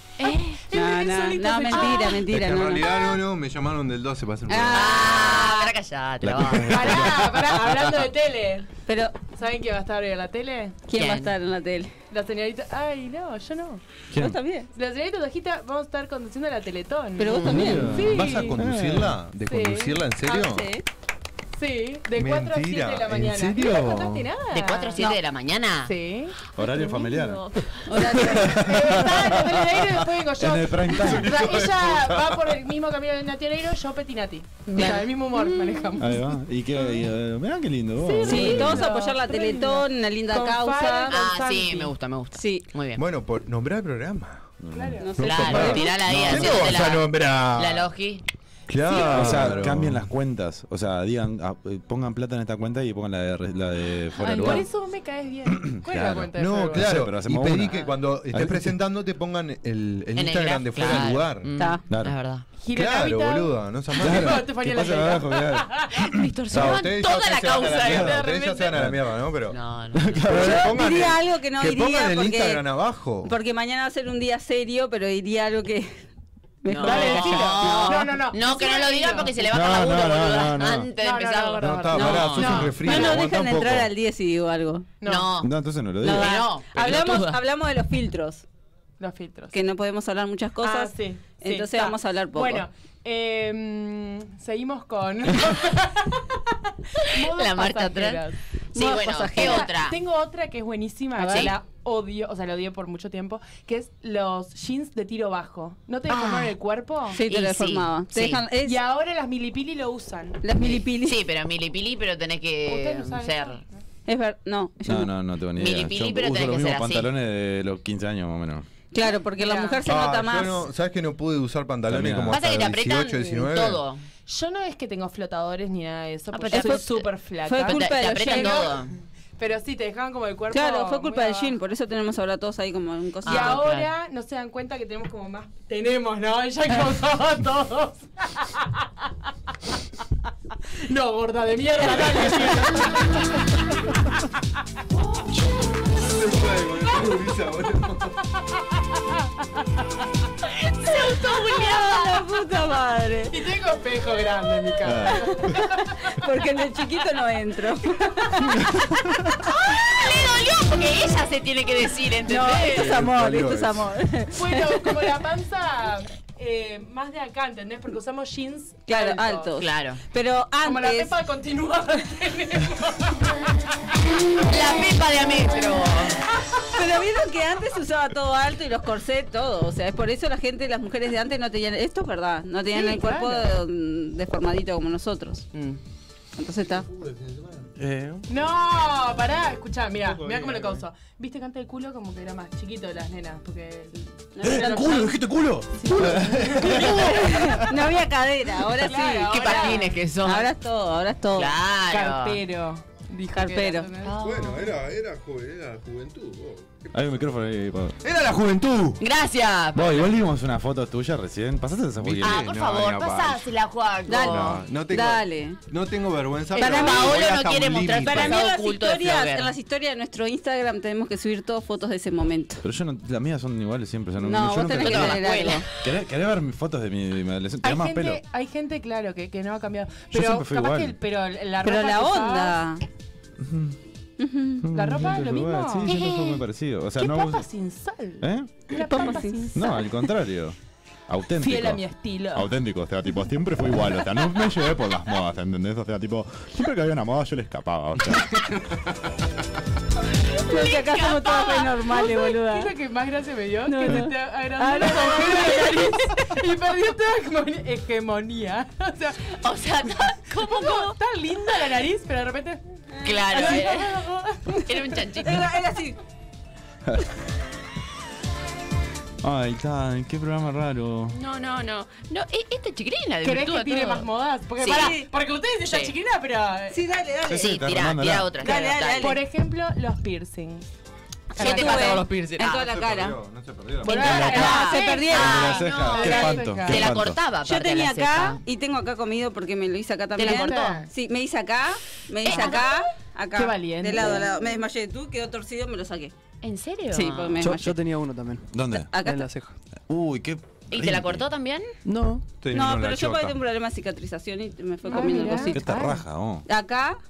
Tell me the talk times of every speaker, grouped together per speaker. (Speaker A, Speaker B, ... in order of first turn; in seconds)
Speaker A: 0.2-2.2, 6.7-8.7, 9.3-10.8, 12.1-13.8, 14.7-18.6, 19.5-20.4, 21.6-25.1, 25.9-36.2, 38.0-41.9, 44.7-45.1, 48.9-49.6, 54.2-57.0, 62.6-66.2, 67.9-68.8, 76.8-79.4, 81.0-83.2, 85.0-85.4, 89.0-89.6, 90.6-98.4, 99.3-107.2, 108.6-110.4, 112.7-113.7, 119.0-119.8, 124.2-128.8, 129.4-131.6, 133.2-138.8, 140.9-143.6, 153.3-156.3, 164.3-169.5, 170.6-173.5, 182.7-183.5, 188.3-195.1, 195.7-197.5, 198.7-200.0, 201.9-204.3, 227.6-232.6, 234.7-236.4, 237.0-239.9, 241.4-242.5, 251.9-259.3, 259.9-262.6, 263.2-265.4, 273.2-276.8, 279.0-280.6, 281.4-282.0, 283.8-286.9, 290.2-290.9, 292.2-292.6, 293.3-294.3, 304.9-306.0
Speaker B: 0.2-0.6, 4.7-7.2, 10.9-11.3, 17.3-17.9, 24.5-25.9, 41.1-43.0, 45.2-48.2, 60.1-62.5, 66.0-68.3, 69.5-70.5, 76.7-83.0, 85.0-85.5, 86.0-87.4, 97.2-98.2, 98.7-100.0, 101.3-101.5, 106.1-106.5, 107.2-108.4, 110.6-113.6, 115.6-117.1, 122.3-124.0, 126.3-127.1, 127.6-128.9, 133.2-133.9, 150.8-152.2, 159.4-163.0, 169.6-170.0, 174.4-176.2, 185.5-185.8, 199.3-200.5, 201.3-202.4, 204.0-204.7, 209.0-210.1, 212.2-214.6, 216.5-219.5, 224.8-225.7, 250.4-251.7, 259.4-260.9, 263.0-264.0, 264.6-265.5, 271.1-274.1, 274.6-274.9, 275.7-275.9, 277.3-279.2, 281.4-282.7, 284.2-288.4, 290.2-290.8, 292.2-292.9, 296.4-297.6, 300.7-301.7
Speaker C: 0.7-2.9, 4.5-5.7, 8.9-9.2, 10.9-11.9, 14.1-14.7, 17.2-18.3, 20.3-20.8, 27.9-28.7, 34.7-35.9, 38.2-41.2, 42.3-42.6, 45.0-45.9, 70.3-72.6, 73.2-76.0, 76.6-78.1, 81.9-84.9, 86.0-88.4, 89.5-92.7, 98.7-99.7, 101.2-101.5, 107.1-108.8, 110.4-111.2, 114.1-115.1, 118.9-120.7, 126.5-126.9, 127.4-128.7, 130.5-133.6, 151.0-153.3, 155.4-159.2, 162.3-165.1, 168.9-171.1, 176.7-185.4, 186.4-186.9, 194.3-195.1, 196.7-201.5, 203.3-203.9, 214.1-215.6, 216.6-217.2, 218.0-222.6, 224.2-225.6, 231.6-232.8, 234.2-234.6, 238.7-239.5, 250.4-252.7, 253.7-255.9, 262.9-263.6, 265.2-266.0, 274.6-275.1, 276.7-277.6, 278.4-279.2, 281.3-283.2, 283.8-285.5, 287.4-296.1, 296.9-297.7, 298.7-299.3, 302.5-305.8, 306.4-307.0
Speaker D: 2.2-5.3, 6.3-7.0, 18.0-20.7, 22.1-24.3, 31.0-32.2, 43.0-44.5, 45.2-47.9, 48.7-50.0, 56.3-61.5, 62.7-64.5, 66.5-69.5, 70.3-73.3, 81.6-83.9, 119.8-123.8, 146.0-148.2, 162.7-163.8, 186.9-187.7, 190.0-190.8, 204.2-206.9, 208.0-209.0, 212.0-213.5, 214.2-218.4, 282.6-284.1, 302.4-303.3
Speaker E: 6.2-7.1, 17.5-19.2, 26.5-27.5, 28.2-31.9, 36.0-38.9, 44.6-45.6, 49.0-54.7, 55.5-58.7, 64.0-65.9, 66.5-66.8, 67.8-68.2, 68.7-69.0, 69.9-70.7, 79.5-80.9, 85.4-86.3, 114.9-118.7, 121.9-122.4, 154.8-155.2, 187.8-188.2, 194.4-197.3, 206.9-208.0, 209.7-212.5, 222.6-228.2, 230.1-230.9, 233.4-233.8, 234.6-237.4, 238.2-238.7, 239.5-240.6, 241.1-248.4, 269.2-271.2, 277.2-278.3, 284.0-287.2, 298.5-298.9, 299.9-301.2, 305.2-306.5
Speaker F: 297.4-299.6, 301.8-302.3